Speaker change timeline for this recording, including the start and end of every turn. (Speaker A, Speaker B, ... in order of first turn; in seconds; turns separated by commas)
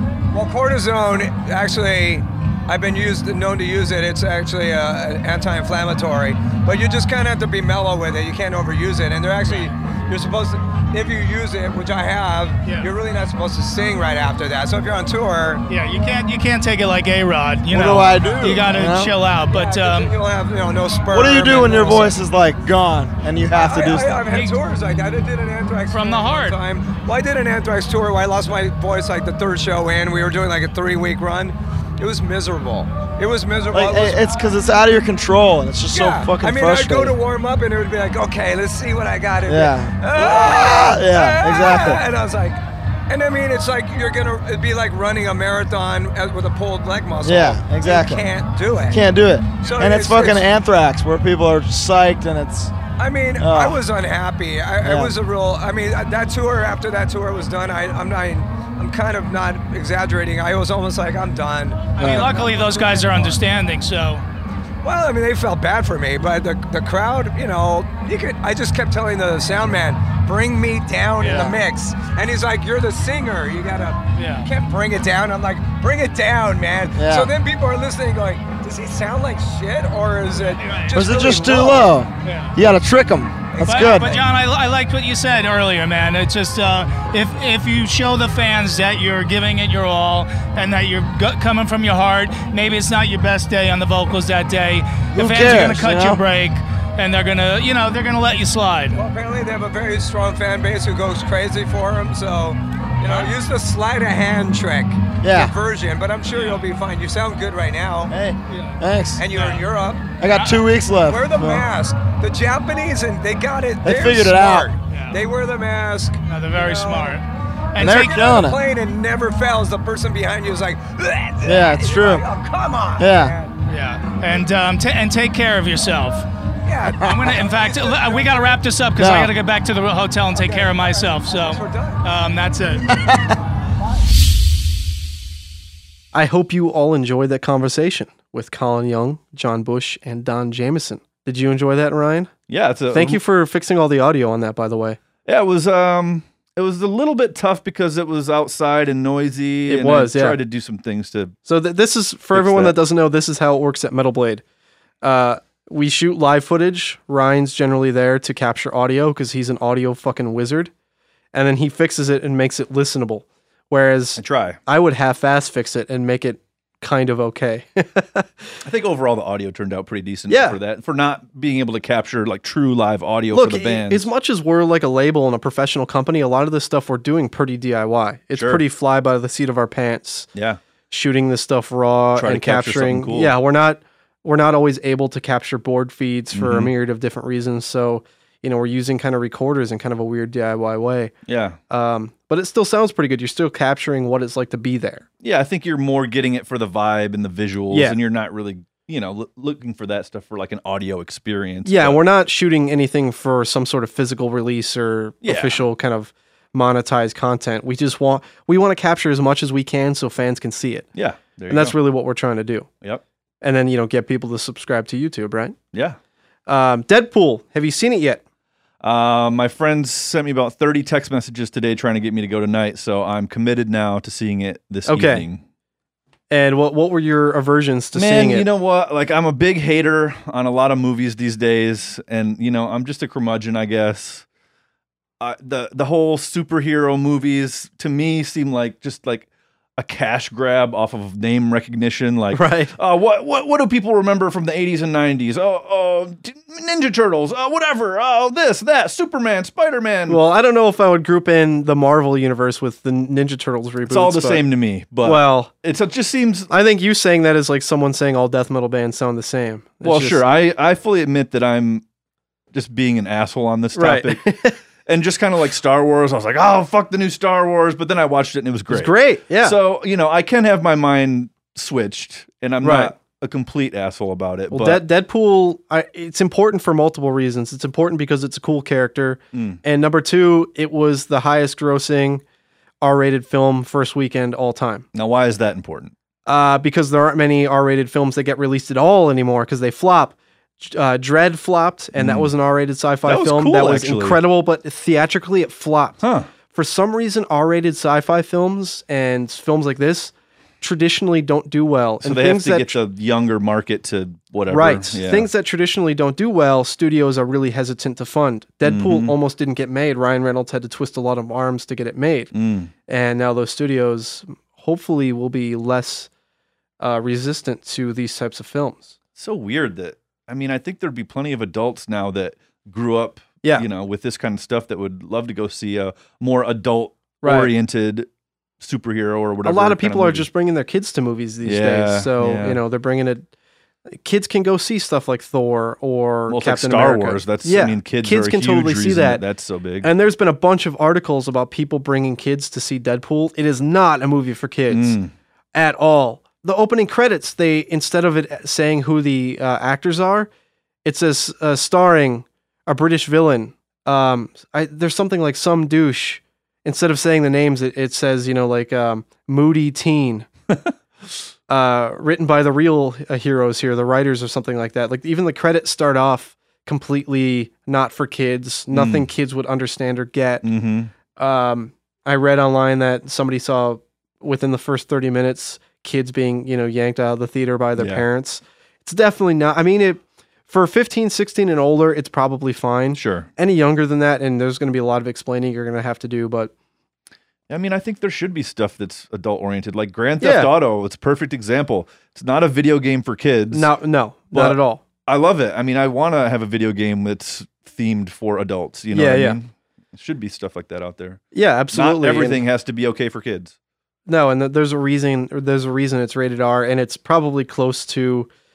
Speaker A: 0.3-15.6, Speaker B: 15.7-20.1, Speaker C: 17.7-19.1, Speaker A: 18.2-18.5, Speaker A: 19.5-22.2, Speaker C: 21.1-24.2, Speaker A: 23.5-34.2, Speaker B: 24.3-24.6, Speaker B: 25.9-26.6, Speaker C: 33.7-37.2, Speaker A: 35.9-49.0, Speaker C: 39.4-42.0, Speaker C: 47.2-48.2, Speaker C: 48.9-52.7, Speaker A: 49.6-50.4, Speaker A: 53.0-63.4, Speaker C: 53.4-53.8, Speaker C: 54.8-55.1, Speaker B: 62.0-64.2, Speaker C: 62.0-62.3, Speaker A: 64.8-81.9, Speaker B: 71.2-71.5, Speaker C: 71.2-71.6, Speaker B: 74.2-74.5, Speaker C: 76.9-77.3, Speaker B: 80.5-81.1, Speaker C: 80.9-84.1, Speaker B: 82.2-82.6, Speaker A: 83.5-84.2, Speaker B: 83.6-99.0, Speaker C: 95.1-96.2, Speaker A: 98.9-108.1, Speaker B: 103.0-103.3, Speaker C: 105.2-105.5, Speaker B: 106.3-106.6, Speaker C: 108.1-109.3, Speaker B: 108.5-108.8, Speaker A: 109.2-110.1, Speaker B: 109.3-109.7, Speaker C: 110.2-111.6, Speaker B: 110.2-110.6, Speaker A: 111.0-117.2, Speaker C: 113.8-114.7, Speaker B: 114.9-115.2, Speaker B: 116.3-118.4, Speaker C: 117.8-118.6, Speaker A: 117.8-123.5, Speaker C: 121.4-122.2, Speaker C: 123.0-123.3, Speaker B: 123.7-126.2, Speaker A: 126.7-128.5, Speaker B: 126.9-133.1, Speaker C: 129.0-129.3, Speaker A: 130.3-132.0, Speaker D: 136.1-142.3, Speaker E: 142.5-143.2, Speaker D: 142.9-145.0, Speaker E: 145.2-151.3, Speaker D: 149.7-150.4, Speaker D: 151.4-154.4, Speaker E: 152.3-152.8, Speaker D: 155.0-160.7, Speaker D: 161.3-168.5, Speaker E: 164.2-164.6, Speaker E: 168.6-174.1, Speaker D: 170.3-170.6, Speaker D: 173.3-180.3, Speaker E: 178.3-178.6, Speaker E: 180.3-180.6, Speaker D: 180.9-191.1, Speaker E: 182.1-183.3, Speaker E: 186.3-186.7, Speaker E: 191.3-191.6, Speaker D: 191.7-195.0, Speaker E: 195.2-202.0, Speaker D: 197.7-198.0, Speaker D: 201.6-210.9, Speaker E: 205.2-205.6, Speaker E: 210.9-211.8, Speaker D: 211.5-212.7, Speaker D: 213.4-215.6, Speaker D: 216.5-218.2, Speaker E: 218.8-225.4, Speaker D: 224.8-225.2, Speaker D: 226.3-228.5, Speaker E: 227.9-234.2, Speaker E: 235.2-250.2, Speaker D: 242.3-242.7, Speaker D: 250.1-254.4, Speaker E: 253.9-256.5, Speaker D: 255.0-255.5, Speaker D: 256.5-260.2, Speaker E: 259.8-261.8, Speaker E: 262.5-274.8, Speaker D: 263.8-264.5, Speaker D: 268.7-269.6, Speaker D: 272.6-272.9, Speaker D: 274.5-282.2, Speaker E: 279.3-279.6, Speaker D: 282.8-284.9, Speaker E: 284.9-285.9, Speaker D: 286.2-302.8, Speaker E: 291.9-292.3, Speaker E: 293.0-294.2, Speaker E: 296.0-296.3, Speaker E: 302.0-305.3, Speaker D: 304.5-312.3, Speaker E: 308.6-309.1, Speaker E: 312.3-312.7, Speaker D: 312.9-316.1, Speaker D: 316.8-318.9, Speaker E: 319.1-328.1, Speaker D: 327.2-327.5, Speaker E: 328.6-330.3, Speaker D: 329.4-333.2, Speaker E: 331.4-332.6, Speaker D: 333.9-339.2, Speaker E: 336.3-339.9, Speaker D: 339.8-345.0, Speaker E: 344.7-345.1, Speaker D: 345.5-350.3, Speaker D: 350.8-360.3, Speaker D: 361.5-370.4, Speaker E: 368.7-369.1, Speaker E: 370.4-370.9, Speaker D: 371.1-386.5, Speaker E: 377.8-378.1, Speaker E: 382.9-383.3, Speaker E: 387.5-393.7, Speaker D: 390.2-390.5, Speaker D: 393.5-394.8, Speaker E: 394.3-403.5, Speaker D: 398.9-399.4, Speaker D: 401.3-402.4, Speaker D: 404.1-408.3